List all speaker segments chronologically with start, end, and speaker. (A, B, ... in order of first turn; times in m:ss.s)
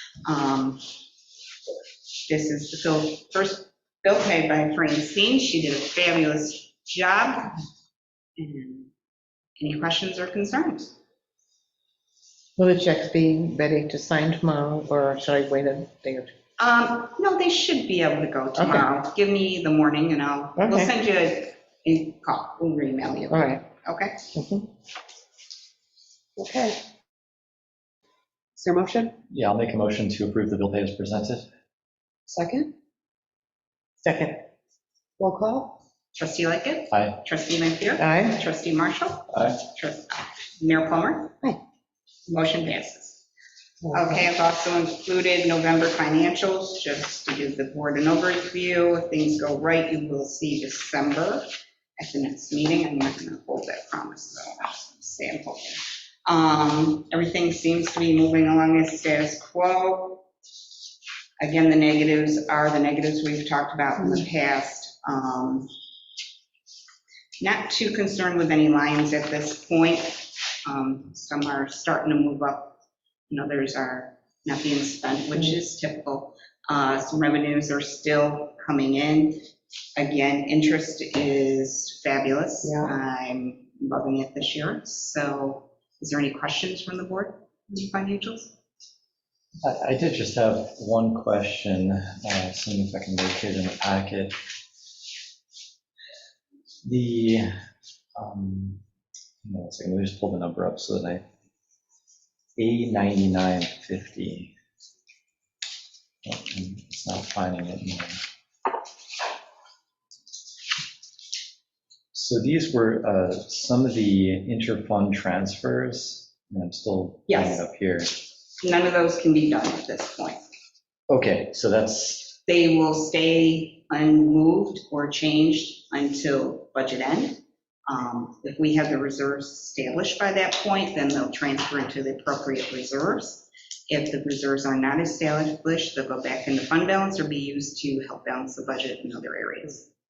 0:00.2-0:00.9 A
0:02.3-0:07.6 A
0:08.4-0:08.9 A
0:09.6-0:10.9 A
0:12.6-0:16.3 B
0:16.6-0:24.2 A
0:18.6-0:18.8 B
0:20.6-0:20.9 B
0:23.3-0:23.6 B
0:24.3-0:24.7 B
0:26.4-0:26.8 C
0:28.6-0:29.1 C
0:29.3-0:31.4 D
0:32.3-0:32.7 C
0:34.0-0:34.4 B
0:35.2-0:35.8 C
0:36.1-0:41.4 A
0:36.9-0:37.2 D
0:38.0-0:38.4 B
0:42.3-0:43.2 A
0:43.9-0:51.4 A
0:52.0-1:00.2 A
1:01.4-1:05.7 A
1:07.4-1:12.8 A
1:13.3-1:19.4 A
1:20.0-1:28.5 A
1:22.6-1:22.9 C
1:29.6-1:34.3 D
1:36.8-1:37.5 D
1:38.2-1:38.8 D
1:39.4-1:41.2 D
1:42.6-1:44.5 D
1:46.2-1:48.2 D
1:52.1-1:58.2 D
1:57.3-1:57.6 A
1:58.6-2:00.4 A
2:01.1-2:02.3 D
2:02.4-2:19.9 A